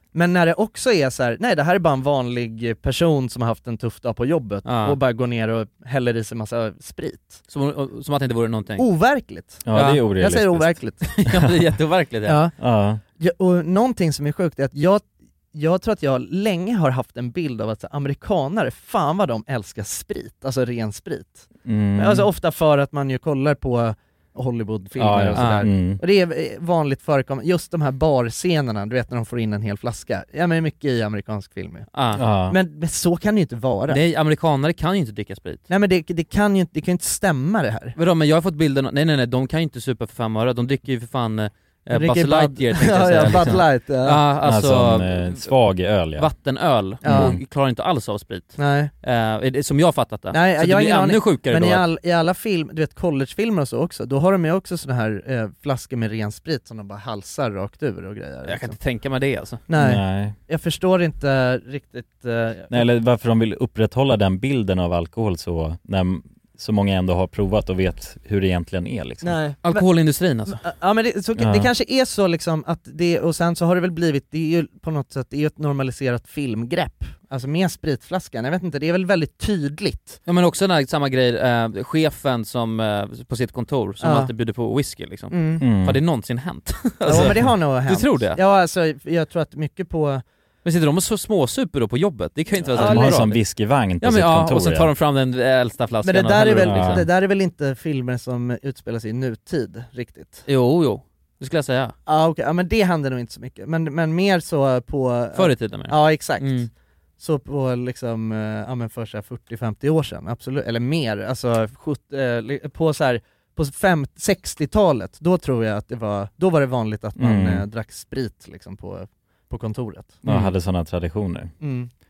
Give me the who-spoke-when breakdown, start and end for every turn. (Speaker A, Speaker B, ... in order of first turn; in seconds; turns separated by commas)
Speaker A: 0.1-7.4, Speaker B: 4.7-5.0, Speaker B: 7.5-8.9, Speaker A: 8.8-11.3, Speaker C: 9.7-11.0, Speaker B: 9.7-10.0, Speaker B: 11.2-12.4, Speaker A: 12.2-12.6, Speaker C: 12.6-13.0, Speaker A: 13.2-34.0, Speaker C: 21.7-22.3, Speaker C: 25.0-26.0, Speaker B: 25.4-25.7, Speaker B: 31.9-32.2, Speaker C: 32.1-32.6, Speaker B: 33.9-35.6, Speaker A: 35.7-38.0, Speaker B: 38.0-45.5, Speaker A: 41.9-44.2, Speaker C: 44.4-46.3, Speaker B: 46.1-51.9, Speaker A: 47.0-47.4, Speaker C: 47.0-47.4, Speaker A: 48.6-48.9, Speaker A: 50.3-58.8, Speaker B: 58.5-59.6, Speaker A: 59.7-62.9, Speaker C: 59.8-60.4, Speaker C: 62.7-69.4, Speaker A: 69.2-69.8, Speaker B: 69.6-70.6, Speaker A: 70.6-80.2, Speaker C: 71.4-71.7, Speaker B: 80.3-88.4, Speaker A: 84.0-84.3, Speaker A: 85.3-85.6, Speaker C: 85.6-86.0, Speaker A: 87.0-90.2, Speaker C: 87.2-87.5, Speaker B: 90.7-93.4, Speaker C: 92.6-94.9, Speaker A: 92.8-93.2, Speaker B: 94.0-97.1, Speaker A: 96.0-100.4, Speaker C: 96.7-97.1, Speaker B: 100.5-102.0, Speaker A: 102.1-106.7, Speaker B: 105.3-106.7, Speaker A: 107.2-120.3, Speaker C: 117.2-117.7, Speaker C: 120.2-121.5, Speaker A: 121.6-121.9